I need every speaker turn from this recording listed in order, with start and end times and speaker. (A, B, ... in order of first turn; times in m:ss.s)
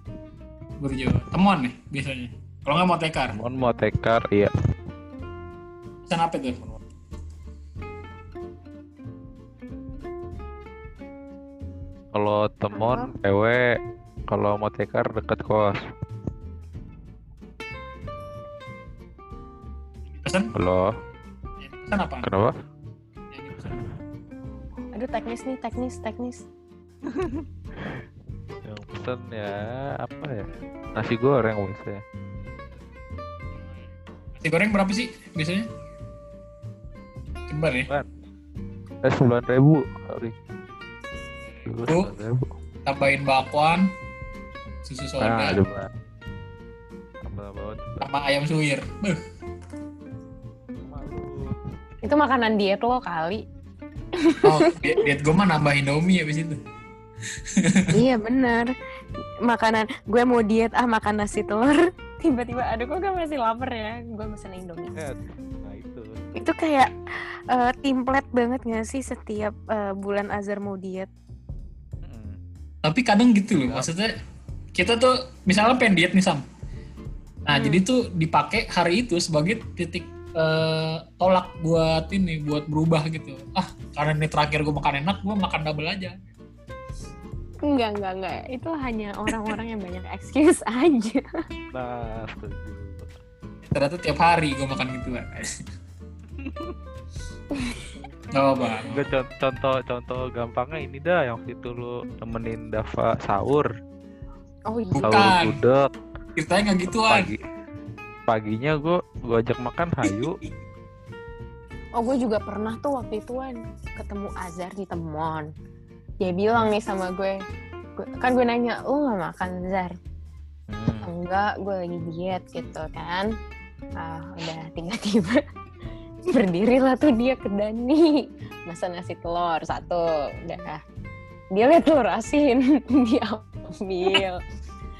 0:00.8-0:03.4 A
0:03.3-0:04.5 B
0:06.0-0:06.6 A
0:12.1-0:15.8 B
0:12.7-0:13.1 C
0:20.1-0:20.5 A
0:20.5-0:20.9 B
0:21.6-0:22.3 A
0:22.2-0:22.6 B
0:23.3-0:23.9 A
0:24.9-0:26.5 C
0:27.1-0:28.0 B
0:28.6-0:32.0 B
0:34.3-0:35.7 A
0:37.5-0:37.9 A
0:39.0-0:40.3 B
0:41.6-0:42.1 A
0:41.6-0:42.5 B
0:42.8-0:43.9 A
0:44.8-0:45.6 A
0:45.2-0:45.9 B
0:47.2-0:48.1 B
0:48.0-0:49.2 A
0:50.8-0:51.5 B
0:52.0-0:53.4 C
0:54.2-0:55.0 C
0:54.4-0:56.6 A
0:57.6-0:57.9 A
0:57.9-0:58.7 C
0:59.4-1:05.0 C
1:04.9-1:06.2 B
1:06.4-1:06.9 C
1:07.5-1:11.1 C
1:12.0-1:12.4 B
1:12.8-1:14.1 A
1:13.6-1:13.9 B
1:14.7-1:16.4 A
1:17.5-1:26.3 A
1:17.5-1:17.8 C
1:27.7-1:31.2 C
1:31.7-1:33.1 B
1:33.7-1:35.5 A
1:36.4-1:36.7 B
1:37.5-1:37.9 C
1:38.3-1:39.1 A
1:38.8-1:43.7 B
1:44.7-1:45.2 C
1:44.9-1:45.6 A
1:45.0-1:45.9 B
1:46.4-1:47.3 A
1:46.9-1:47.4 B
1:48.3-1:50.4 B
1:50.0-1:50.3 A
1:52.0-1:55.5 C
1:56.2-1:57.4 C
1:58.0-2:00.0 C
2:00.7-2:01.1 B
2:01.0-2:03.3 C
2:04.0-2:05.4 C
2:06.3-2:10.8 C
2:11.5-2:14.4 C